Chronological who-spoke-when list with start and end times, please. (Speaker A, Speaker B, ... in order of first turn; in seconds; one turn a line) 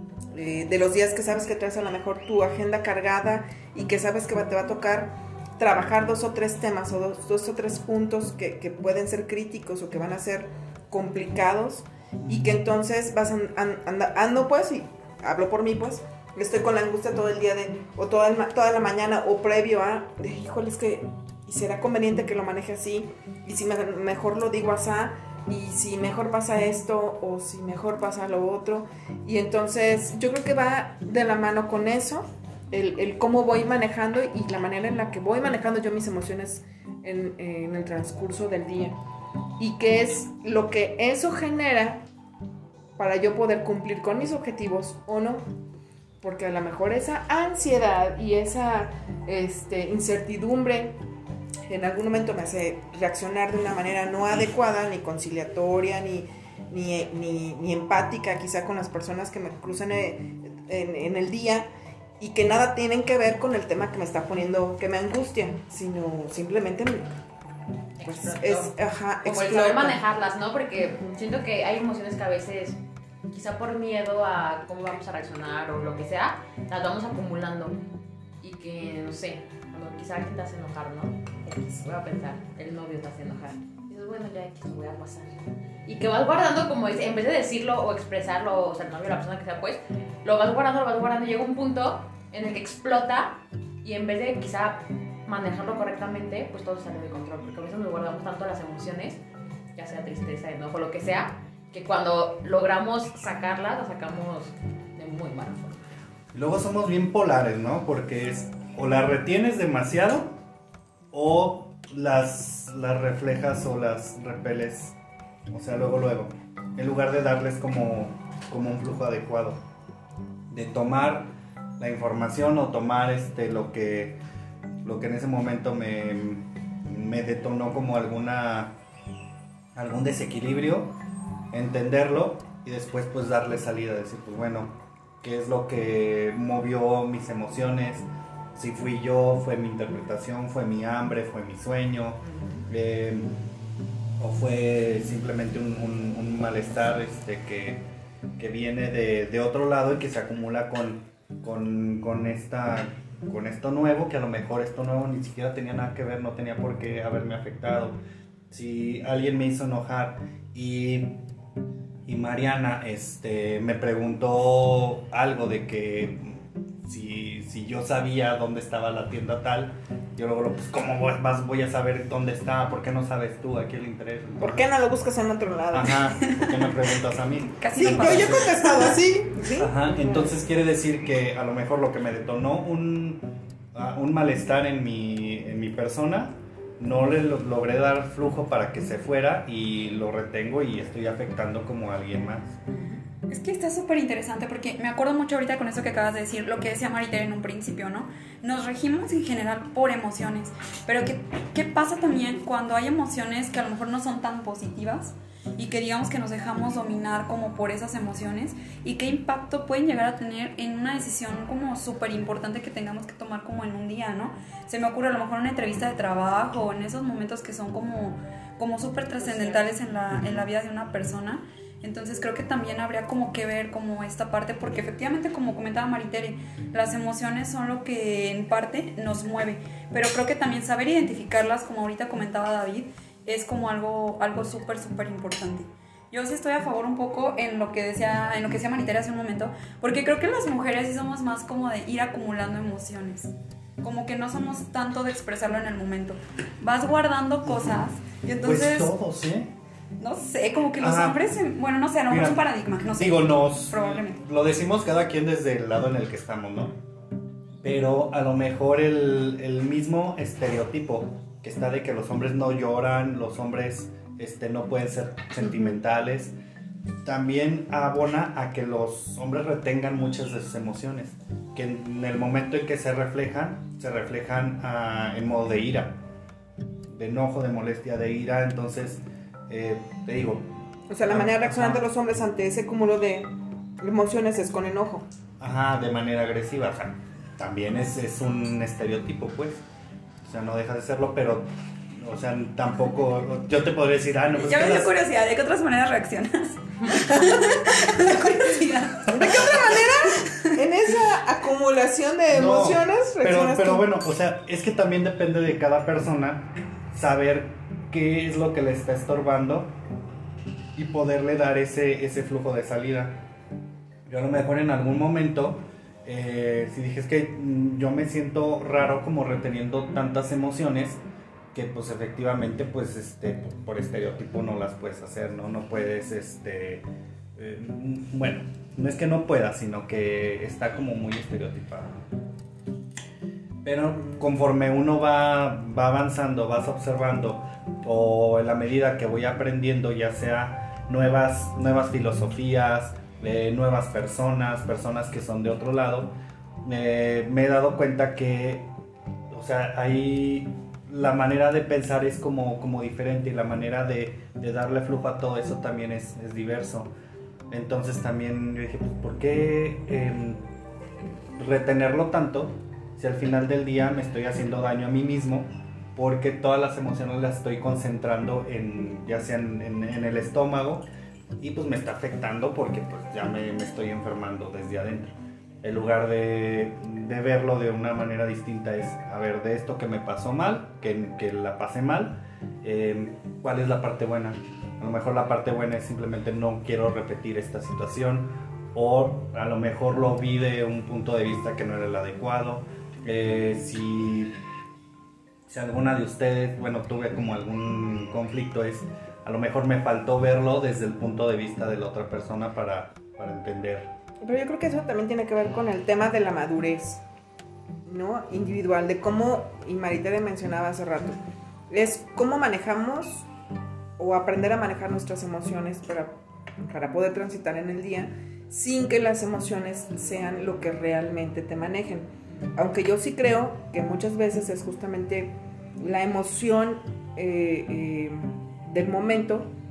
Speaker A: 0.3-39.0
Speaker B: 12.2-12.6
Speaker A: 39.6-42.0
Speaker A: 43.0-45.4
Speaker A: 46.2-51.0
Speaker A: 51.7-61.7
Speaker A: 62.2-67.2
Speaker C: 68.0-77.8
Speaker A: 68.0-70.0
Speaker C: 78.4-85.3
Speaker C: 85.9-99.2
Speaker C: 99.8-105.8
Speaker B: 106.3-110.3
Speaker B: 111.1-115.0
Speaker B: 115.5-119.6
Speaker B: 120.5-124.2
Speaker B: 124.8-128.7
Speaker B: 129.8-130.9
Speaker B: 131.5-143.3
Speaker B: 144.2-147.8
Speaker B: 148.4-158.0
Speaker B: 158.5-161.2
Speaker B: 162.1-174.6
Speaker A: 174.4-176.1
Speaker B: 175.7-179.0
Speaker D: 177.5-178.9
Speaker A: 177.8-180.3
Speaker B: 179.6-192.6
Speaker D: 193.3-248.9
Speaker A: 219.2-219.7
Speaker B: 247.4-247.8
Speaker B: 248.4-249.5
Speaker D: 250.0-254.2
Speaker B: 250.8-251.2
Speaker B: 252.1-256.8
Speaker B: 257.6-266.3
Speaker B: 267.0-276.0
Speaker B: 276.9-280.5
Speaker A: 280.9-285.1
Speaker B: 281.0-281.9
Speaker B: 285.4-289.6
Speaker B: 290.2-294.9
Speaker D: 294.4-299.2
Speaker A: 299.1-303.9
Speaker B: 299.1-299.7
Speaker D: 300.2-300.6
Speaker B: 302.3-309.7
Speaker B: 310.8-313.2
Speaker B: 314.1-321.0
Speaker B: 321.5-326.9
Speaker B: 327.4-332.0
Speaker B: 333.6-348.7
Speaker B: 349.3-356.9
Speaker B: 357.5-360.4
Speaker B: 361.4-370.9
Speaker B: 371.4-394.4
Speaker B: 395.5-403.9
Speaker A: 404.2-407.0
Speaker A: 407.9-411.2
Speaker A: 411.7-413.3
Speaker A: 414.0-416.1
Speaker A: 416.6-429.5